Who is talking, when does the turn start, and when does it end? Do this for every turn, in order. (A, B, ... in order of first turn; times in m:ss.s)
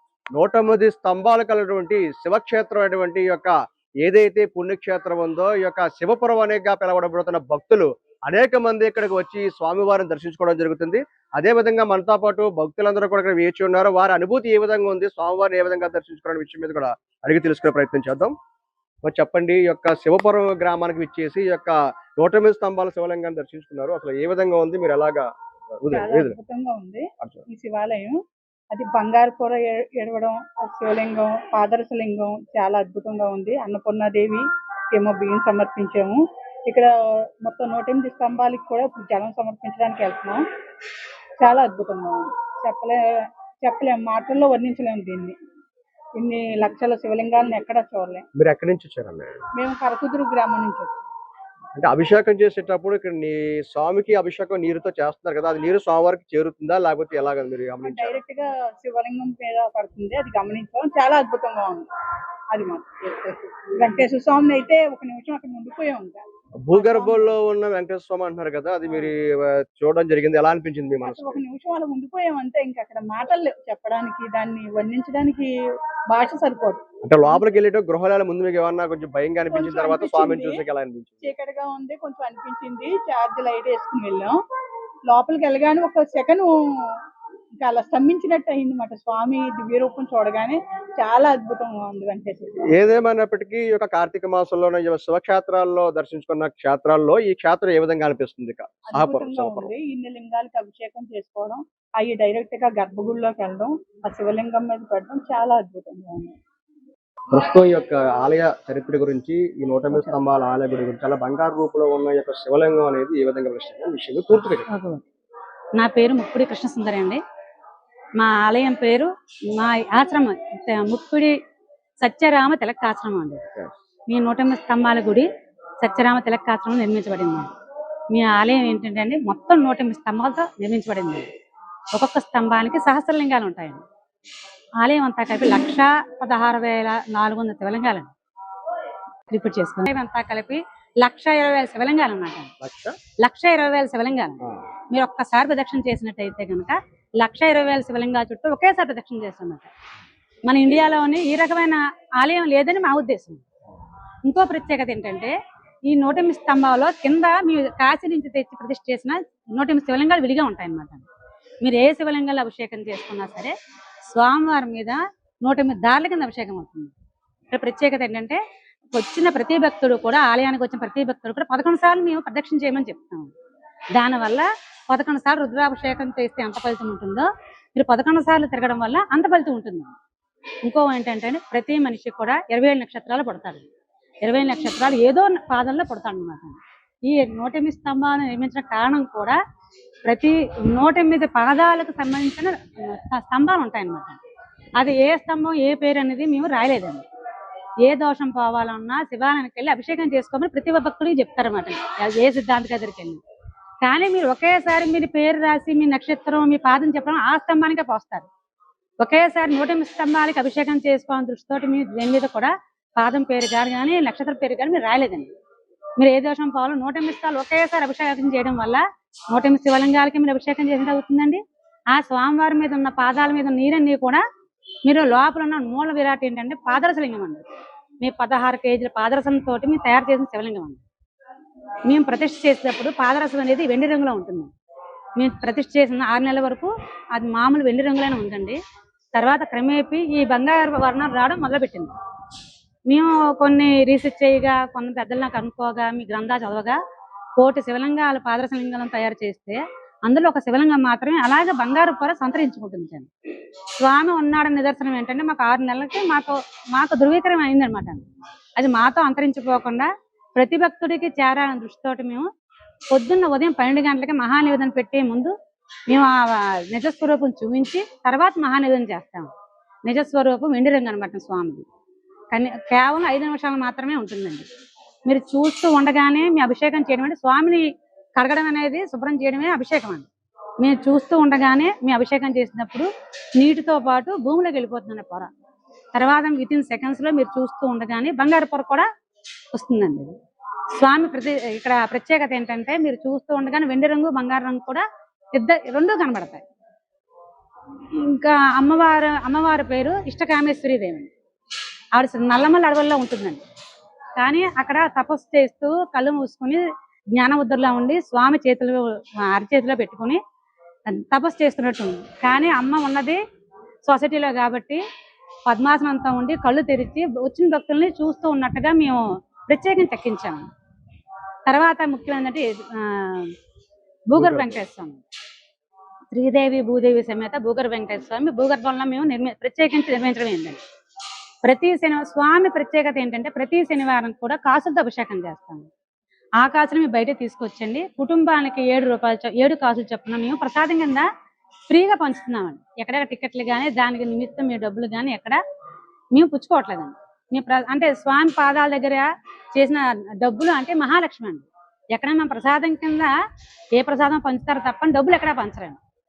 0:00.3-0:18.3 A
0:19.0-0:26.4 A
0:25.9-0:36.9 B
0:37.4-0:40.4 B
0:41.4-0:43.0 B
0:43.6-0:45.3 B
0:46.2-0:48.2 B
0:48.4-0:49.4 A
0:49.6-0:51.0 B
0:51.8-0:58.2 A
0:57.8-1:01.9 B
1:02.5-1:07.4 B
1:06.6-1:11.4 A
1:11.0-1:15.5 B
1:16.1-1:16.8 B
1:17.0-1:21.3 A
1:19.5-1:20.6 B
1:21.2-1:24.4 B
1:25.1-1:26.9 B
1:27.6-1:32.6 B
1:32.7-1:39.7 A
1:38.9-1:46.3 B
1:47.3-1:54.7 A
1:54.7-1:55.0 C
1:55.8-1:57.2 C
1:58.2-2:01.4 C
2:02.0-2:03.4 C
2:04.1-2:05.3 C
2:05.8-2:07.5 C
2:08.1-2:11.3 C
2:11.9-2:13.8 C
2:14.8-2:18.1 C
2:19.3-2:22.5 C
2:22.6-2:23.0 A
2:23.2-2:24.4 C
2:24.9-2:29.7 C
2:30.4-2:33.4 C
2:34.2-2:35.3 C
2:35.8-2:41.0 C
2:41.6-2:43.5 C
2:44.1-2:46.9 C
2:47.5-2:48.4 C
2:48.9-2:53.3 C
2:53.9-2:59.9 C
3:00.6-3:03.6 C
3:04.2-3:09.4 C
3:10.0-3:14.2 C
3:14.8-3:17.0 C
3:17.8-3:23.2 C
3:23.8-3:28.3 C
3:29.0-3:35.3 C
3:36.0-3:41.4 C
3:41.9-3:44.2 C
3:44.8-3:47.4 C
3:48.0-3:50.8 C
3:51.8-3:54.5 C
3:55.2-3:58.6 C
3:59.1-4:02.0 C
4:02.9-4:06.8 C
4:07.4-4:13.1 C
4:13.8-4:18.0 C
4:18.6-4:22.3 C
4:22.9-4:25.3 C
4:25.9-4:29.3 C
4:29.8-4:31.6 C
4:32.3-4:34.4 C
4:35.0-4:40.0 C
4:40.6-4:45.3 C
4:45.9-4:48.8 C
4:49.5-4:50.1 C
4:50.8-4:56.4 C
4:57.9-5:01.1 C
5:01.9-5:03.4 C
5:04.2-5:10.2 C
5:10.8-5:13.2 C
5:13.8-5:14.8 C
5:15.4-5:20.5 C
5:21.4-5:23.3 C
5:24.1-5:25.0 C
5:24.2-5:24.6 A
5:26.1-5:30.6 C
5:31.4-5:35.7 C
5:36.4-5:41.1 C
5:41.7-5:45.4 C
5:46.1-5:53.1 C
5:53.7-5:55.8 C